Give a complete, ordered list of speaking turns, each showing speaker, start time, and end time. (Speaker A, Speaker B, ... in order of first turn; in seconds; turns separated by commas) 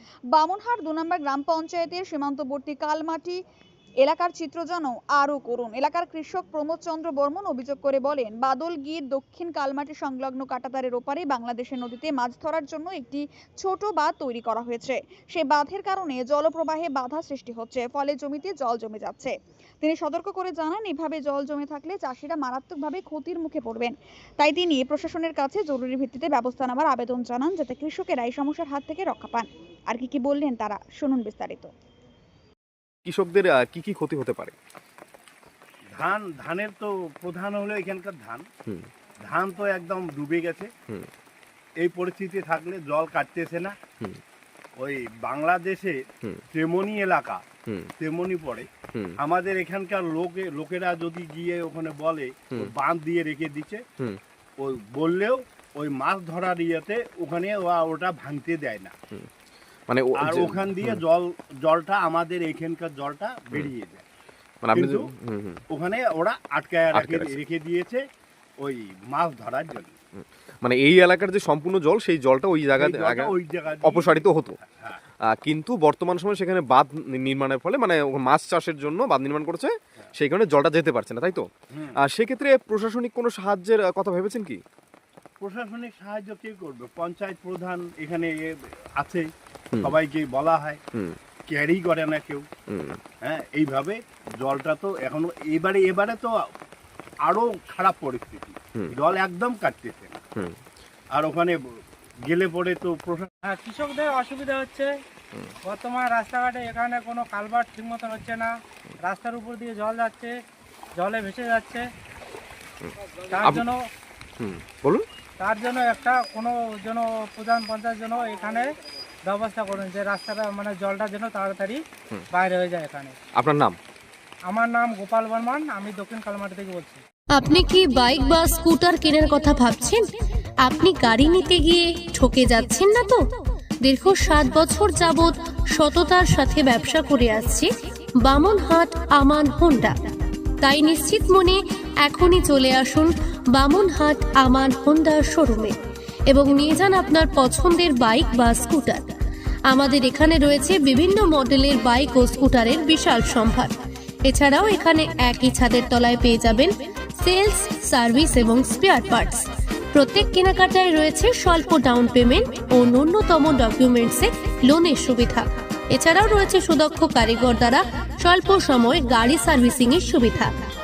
Speaker A: 0.3-3.4, Speaker A: 4.0-31.7, Speaker B: 33.0-34.5, Speaker C: 35.9-38.5, Speaker C: 39.2-40.7, Speaker C: 41.8-43.7, Speaker C: 44.8-46.0, Speaker C: 46.5-47.4, Speaker C: 48.0-53.8, Speaker C: 54.6-58.9, Speaker B: 59.9-61.0, Speaker C: 60.2-64.0, Speaker B: 64.6-65.6, Speaker C: 64.8-65.1, Speaker C: 65.7-68.0, Speaker B: 66.9-67.4, Speaker C: 68.6-69.9, Speaker B: 70.6-74.6, Speaker C: 72.8-75.0, Speaker B: 75.4-81.5, Speaker C: 81.7-82.0, Speaker B: 82.0-84.6, Speaker C: 85.4-88.5, Speaker C: 89.0-89.3, Speaker C: 89.8-90.8, Speaker C: 91.5-92.5, Speaker B: 92.7-93.0, Speaker C: 93.2-96.4, Speaker C: 97.2-100.2, Speaker C: 101.2-101.6, Speaker C: 102.3-103.3, Speaker D: 103.4-104.9, Speaker D: 105.7-108.5, Speaker D: 109.1-110.3, Speaker D: 111.0-111.9, Speaker B: 112.8-113.6, Speaker D: 113.3-113.8, Speaker B: 114.4-115.1, Speaker D: 115.4-118.7, Speaker D: 119.3-121.8, Speaker D: 122.3-123.2, Speaker B: 123.4-123.8, Speaker D: 124.5-127.0, Speaker E: 127.3-130.1, Speaker E: 130.6-133.2, Speaker E: 133.8-137.7, Speaker E: 138.2-140.0, Speaker E: 140.6-149.1, Speaker E: 149.7-153.7, Speaker E: 154.2-170.5